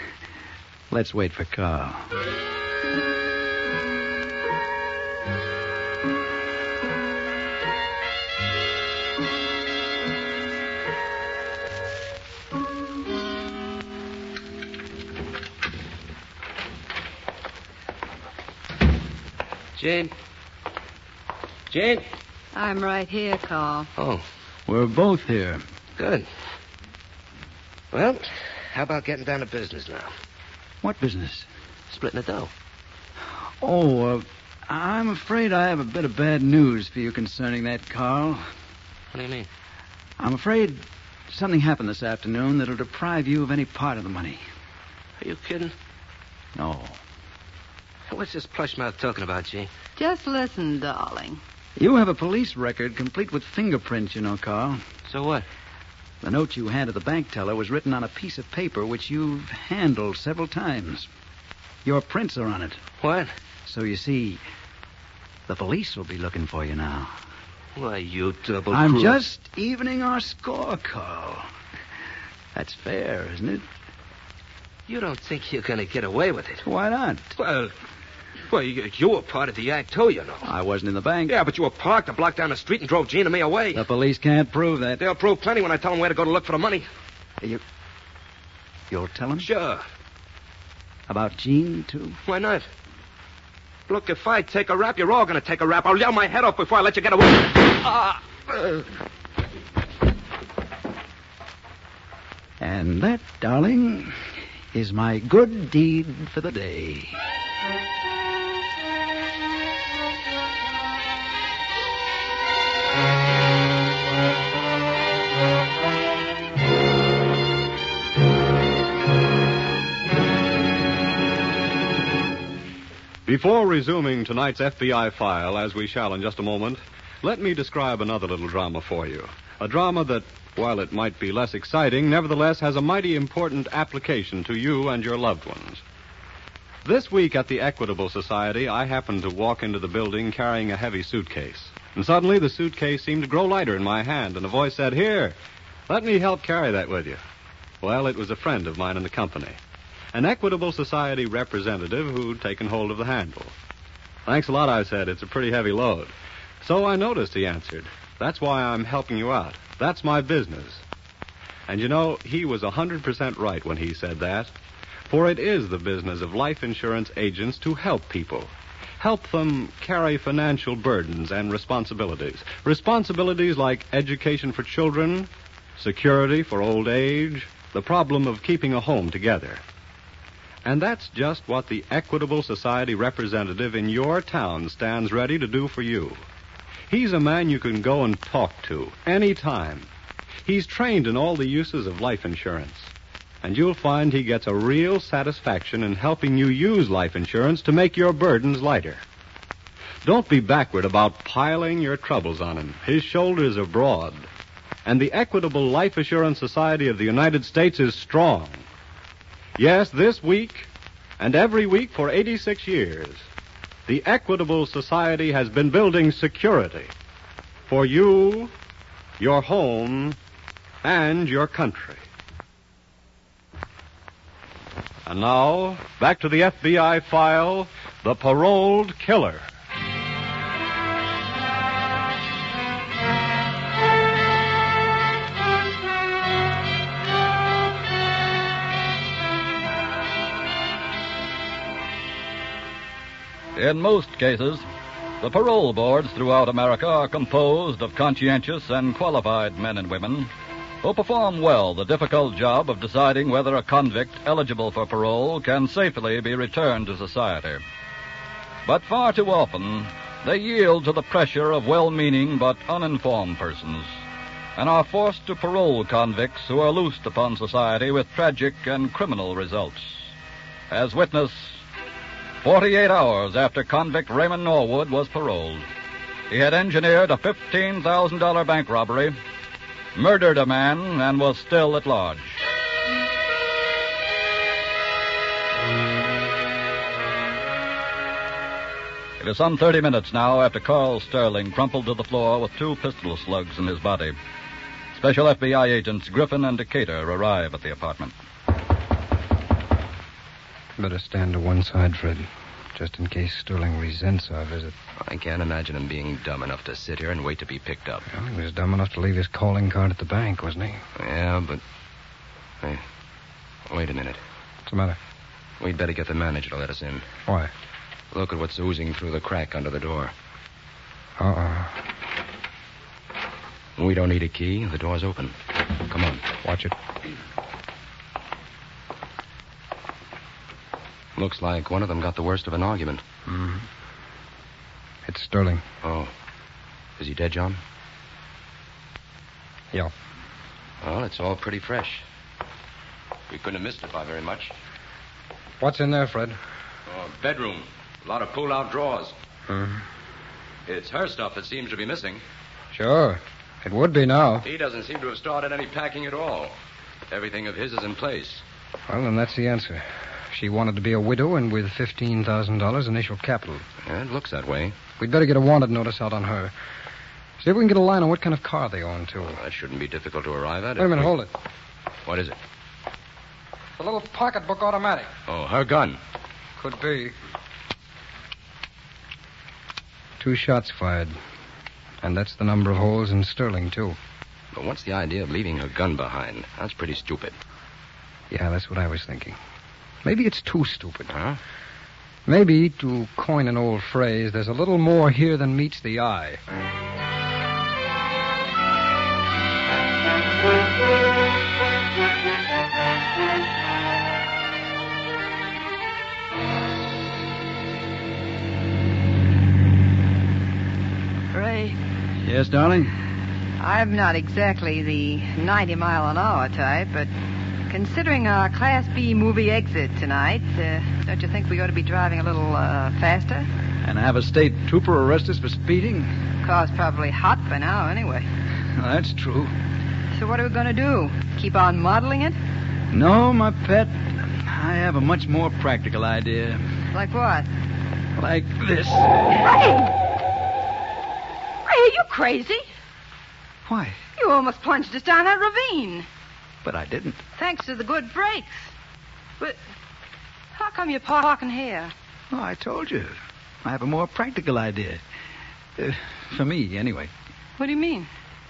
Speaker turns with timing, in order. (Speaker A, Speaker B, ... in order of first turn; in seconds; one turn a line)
Speaker A: 0.9-2.1
Speaker B: 19.8-20.1
Speaker B: 21.7-22.1
Speaker C: 22.5-23.9
Speaker B: 24.0-24.2
Speaker A: 24.7-25.6
Speaker B: 26.0-26.3
Speaker B: 27.9-30.1
Speaker A: 30.8-31.5
Speaker B: 31.9-32.5
Speaker A: 33.6-38.5
Speaker B: 39.1-39.5
Speaker A: 40.2-44.4
Speaker B: 45.2-45.7
Speaker A: 46.5-47.0
Speaker B: 48.1-49.7
Speaker C: 50.0-51.4
Speaker A: 51.8-54.8
Speaker B: 55.1-55.5
Speaker A: 56.2-61.1
Speaker A: 61.8-62.8
Speaker B: 63.0-63.3
Speaker A: 63.6-64.4
Speaker A: 65.5-67.1
Speaker B: 67.8-69.2
Speaker A: 68.7-71.5
Speaker A: 72.5-73.6
Speaker B: 74.9-76.6
Speaker A: 76.6-77.3
Speaker B: 77.3-77.7
Speaker B: 78.5-80.5
Speaker A: 80.4-81.3
Speaker B: 81.3-83.9
Speaker A: 83.7-85.0
Speaker B: 85.0-86.8
Speaker A: 88.9-89.5
Speaker B: 89.4-89.8
Speaker A: 91.1-92.2
Speaker B: 92.2-92.7
Speaker B: 93.9-98.8
Speaker A: 102.6-104.2
Speaker A: 104.7-107.2
Speaker D: 123.2-135.8
Speaker D: 136.8-145.3
Speaker D: 145.9-147.2
Speaker D: 147.8-149.6
Speaker D: 150.1-153.5
Speaker D: 154.2-160.8
Speaker D: 161.7-164.5
Speaker D: 165.1-179.6
Speaker D: 180.6-186.2
Speaker D: 186.9-189.9
Speaker D: 190.4-192.9
Speaker D: 193.4-199.0
Speaker D: 200.0-204.2
Speaker D: 204.8-208.6
Speaker D: 209.6-210.7
Speaker D: 211.2-213.2
Speaker D: 213.9-216.9
Speaker D: 217.7-218.5
Speaker D: 219.2-220.2
Speaker D: 220.8-222.0
Speaker D: 225.1-229.4
Speaker E: 243.5-244.6
Speaker E: 245.2-250.3
Speaker E: 250.8-257.6
Speaker E: 258.6-264.0
Speaker E: 264.6-270.1
Speaker E: 270.7-271.6
Speaker E: 272.4-275.6
Speaker E: 276.3-279.1
Speaker E: 279.9-282.4
Speaker E: 289.2-294.1
Speaker E: 294.9-298.1
Speaker F: 300.8-304.7
Speaker G: 305.0-308.1
Speaker F: 308.1-310.8
Speaker G: 310.9-311.6
Speaker G: 313.7-314.2
Speaker F: 314.7-315.0
Speaker G: 315.6-317.1
Speaker G: 318.1-320.1
Speaker F: 321.2-321.8
Speaker G: 323.8-325.3
Speaker G: 325.9-326.2
Speaker F: 326.4-326.7
Speaker G: 331.1-333.0
Speaker F: 333.3-333.6
Speaker F: 335.1-335.6
Speaker G: 335.8-336.1
Speaker G: 337.0-337.6
Speaker G: 340.8-342.0
Speaker G: 343.3-344.5
Speaker F: 345.6-346.4
Speaker G: 346.9-349.1
Speaker F: 349.5-349.8
Speaker G: 350.6-352.2
Speaker F: 352.7-354.5
Speaker G: 354.4-356.5
Speaker G: 357.1-358.4
Speaker F: 358.9-363.6
Speaker G: 363.8-364.8
Speaker F: 365.0-366.5
Speaker F: 367.4-369.4
Speaker G: 369.2-371.1
Speaker F: 370.8-371.3
Speaker G: 372.1-372.4
Speaker F: 373.8-375.1
Speaker G: 375.3-376.0
Speaker F: 376.6-377.1
Speaker F: 380.2-381.1
Speaker F: 382.0-384.0
Speaker G: 384.5-387.3
Speaker F: 388.3-389.4
Speaker F: 390.0-391.1
Speaker G: 391.1-391.4
Speaker F: 392.2-396.4
Speaker C: 411.3-411.8
Speaker A: 412.2-412.9
Speaker C: 413.6-417.1
Speaker C: 417.7-423.5
Speaker A: 423.8-426.1
Speaker C: 426.4-428.3
Speaker A: 428.8-429.5
Speaker C: 430.1-432.4
Speaker A: 432.9-436.6
Speaker C: 436.9-437.5
Speaker A: 438.2-439.3
Speaker C: 439.4-439.9
Speaker C: 441.6-442.7
Speaker A: 443.7-444.0
Speaker C: 444.1-446.1
Speaker A: 446.6-447.2
Speaker C: 447.4-448.7
Speaker C: 450.5-451.9
Speaker A: 452.3-455.0
Speaker A: 455.8-457.1
Speaker C: 457.6-458.1